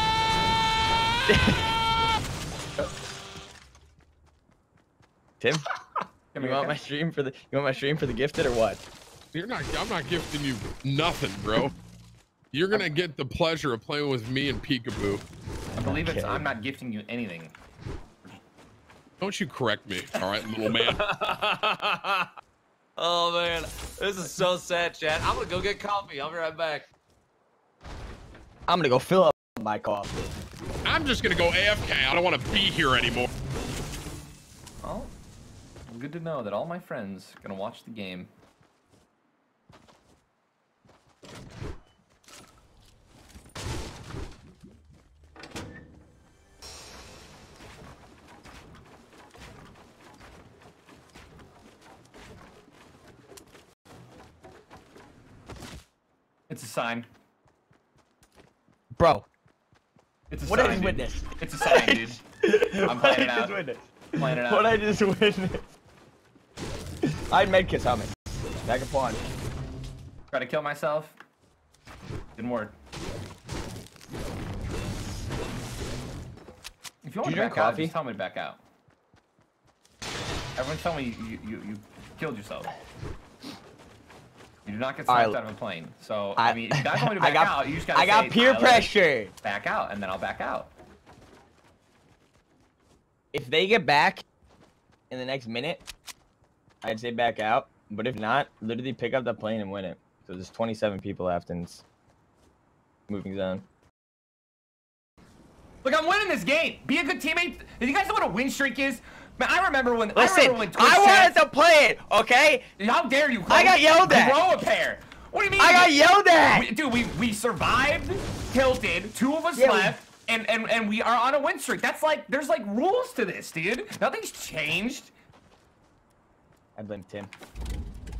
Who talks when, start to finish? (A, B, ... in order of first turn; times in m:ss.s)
0:01.3-0:01.6 A
0:06.4-0:06.8 B
0:06.4-0:08.8 A
0:09.3-0:11.8 C
0:12.5-0:15.2 C
0:15.8-0:17.5 B
0:15.8-0:16.5 A
0:19.2-0:21.0 C
0:20.8-0:22.3 D
0:23.0-0:26.9 D
0:28.7-0:30.2 A
0:30.8-0:33.3 C
0:34.8-0:35.1 B
0:35.9-0:38.3 B
0:56.5-0:57.1 B
0:59.0-0:59.3 A
1:00.3-1:02.2 B
1:00.5-1:05.7 A
1:02.8-1:03.6 B
1:04.2-1:04.7 B
1:07.3-1:08.1 A
1:08.6-1:09.2 A
1:10.3-1:11.2 B
1:12.4-1:12.7 B
1:17.0-1:18.6 B
1:17.2-1:18.0 A
1:20.6-1:22.7 B
1:24.6-1:28.9 B
1:25.1-1:25.4 A
1:26.4-1:29.3 A
1:29.4-1:30.7 B
1:33.3-1:34.2 A
1:35.1-1:35.8 A
1:36.8-1:41.8 A
1:43.1-1:43.6 A
1:45.8-1:51.3 B
1:50.2-1:52.7 A
1:52.8-1:55.9 B
1:53.5-1:54.4 A
1:55.6-1:56.7 A
1:56.5-2:05.1 B
1:59.6-2:00.0 A
2:06.8-2:07.3 A